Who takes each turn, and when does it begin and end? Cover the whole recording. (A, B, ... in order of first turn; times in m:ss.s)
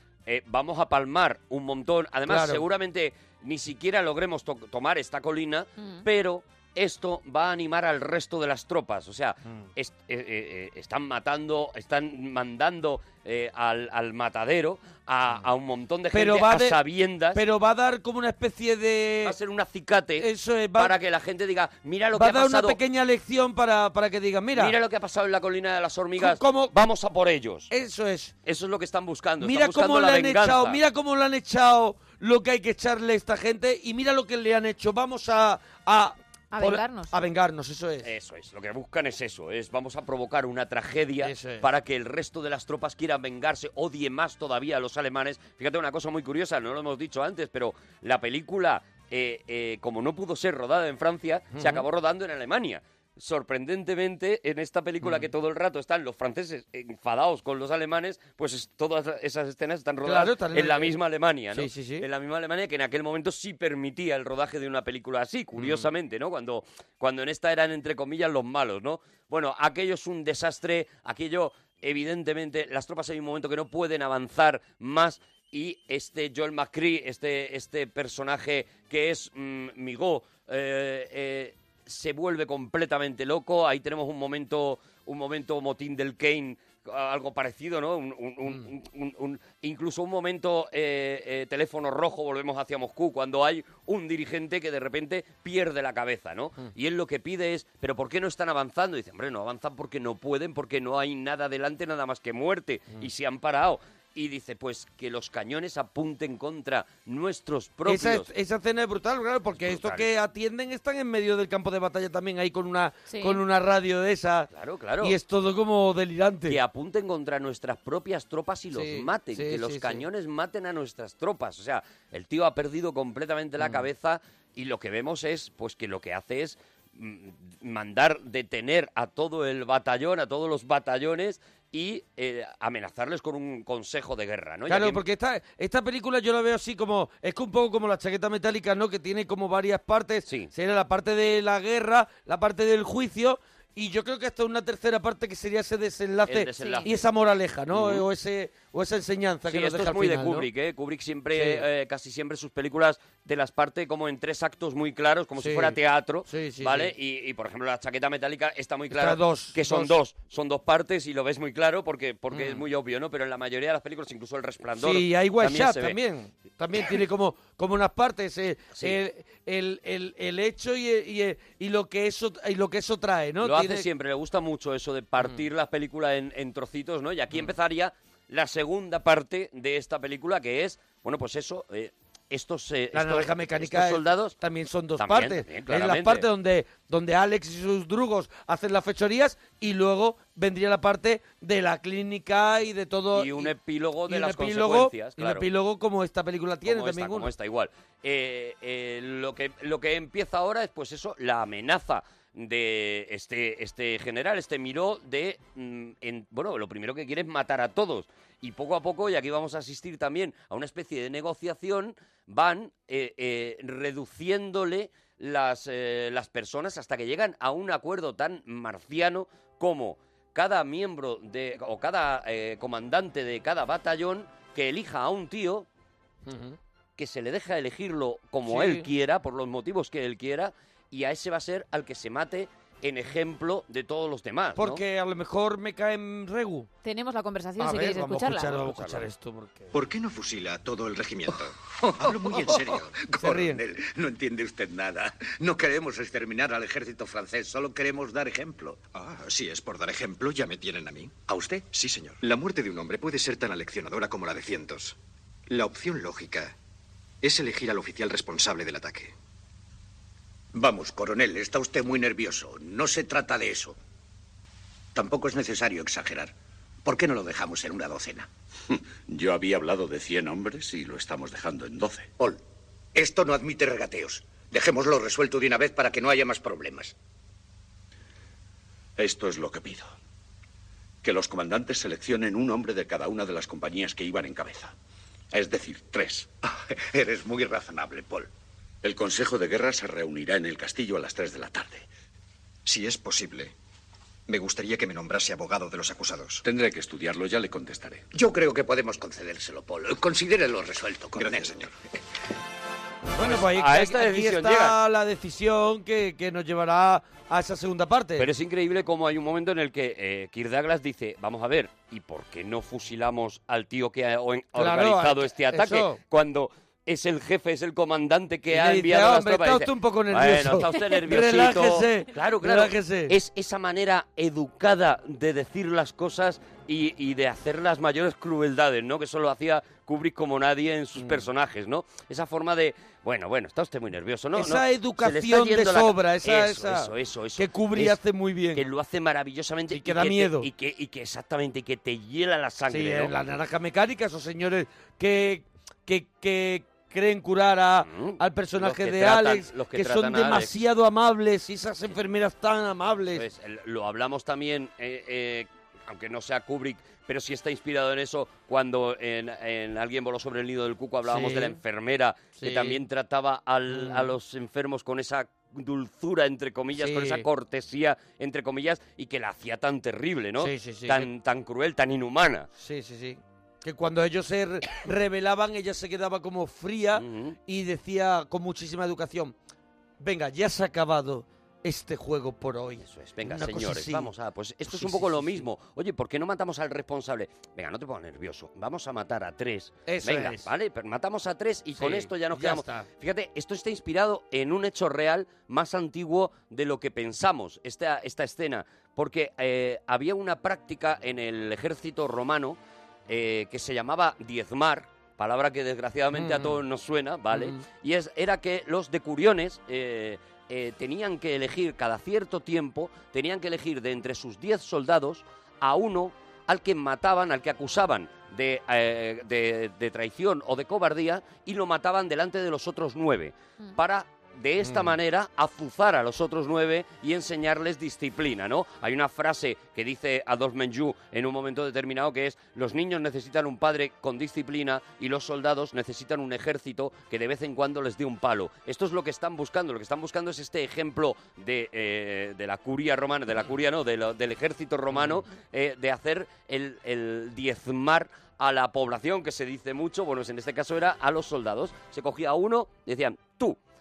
0:00.2-0:17.4 A
0:02.2-0:02.6 B
0:05.8-0:06.0 C
0:16.1-0:16.8 B
0:17.3-0:19.4 B
0:19.2-0:22.8 A
0:20.2-0:20.9 B
0:22.1-0:24.7 B
0:24.5-0:27.7 A
0:26.2-0:26.8 B
0:27.7-0:28.3 B
0:28.4-0:30.8 A
0:29.4-0:38.1 B
0:36.5-0:37.1 C
0:38.0-1:48.3 A
0:41.2-0:41.6 B
0:51.5-0:51.8 B
0:55.0-0:55.3 B
1:00.0-1:00.9 B
1:01.5-1:02.0 B
1:05.6-1:05.9 B
1:47.8-1:56.6 B
1:49.6-1:50.1 A
1:53.1-1:53.4 C
1:54.5-1:55.2 A
1:56.5-2:15.0 A
1:58.7-2:00.0 B
2:03.6-2:03.9 B
2:14.7-2:30.5 B
2:26.2-2:27.0 A
2:26.6-2:26.9 C
2:27.7-2:28.0 A
2:29.5-2:46.0 A
2:31.3-2:31.6 B
2:35.4-2:36.9 B
2:38.9-2:40.0 B
2:42.3-2:42.6 B
2:44.8-2:53.8 B
2:53.4-3:04.4 A
3:02.9-3:13.5 B
3:05.0-3:06.3 A
3:13.1-3:15.5 A
3:14.1-3:17.3 B
3:16.6-3:45.6 A
3:46.2-3:46.6 B
3:47.0-3:54.8 A
3:48.4-3:48.9 B
3:54.6-3:56.7 B
3:56.8-3:58.5 C
3:57.6-3:59.7 B
3:58.4-3:59.1 A
3:59.7-4:03.0 D
4:02.0-4:08.8 E
4:03.2-4:03.6 B
4:08.9-4:11.1 D
4:11.3-4:11.7 E
4:11.6-4:15.0 D
4:15.5-4:16.5 D
4:17.2-4:19.1 D
4:20.5-4:23.8 E
4:24.9-4:26.3 E
4:26.8-4:28.3 E
4:29.1-4:32.2 F
4:32.9-4:36.9 E
4:39.0-4:39.9 F
4:41.0-4:44.7 F
4:45.3-4:46.3 F
4:46.8-4:48.3 E
4:48.8-4:51.9 F
4:52.6-4:53.5 D
4:54.3-4:56.4 D
4:56.4-4:58.1 F
4:58.1-5:01.7 E
5:01.2-5:01.7 D
5:03.1-5:08.3 B
5:03.2-5:04.8 A
5:08.2-5:38.0 A
5:14.5-5:16.0 B
5:18.5-5:23.2 B
5:31.0-5:31.3 B
5:34.3-5:38.6 B
5:38.5-5:43.1 A
5:39.7-5:40.5 B
5:42.7-5:53.2 B
5:47.8-5:50.6 A
5:53.1-6:12.5 A
6:01.0-6:01.6 B
6:02.4-6:02.8 B
6:03.7-6:04.1 B
6:06.7-6:07.2 B
6:10.4-6:11.1 B
6:12.6-6:19.3 B
6:16.9-6:17.4 A
6:20.0-6:24.1 B
6:22.8-7:33.6 A
6:24.7-6:25.4 B
6:29.9-6:30.5 B
6:31.8-6:32.9 B
6:46.1-6:46.6 B
6:47.3-6:47.6 B
7:04.6-7:04.9 B
7:24.9-7:25.2 B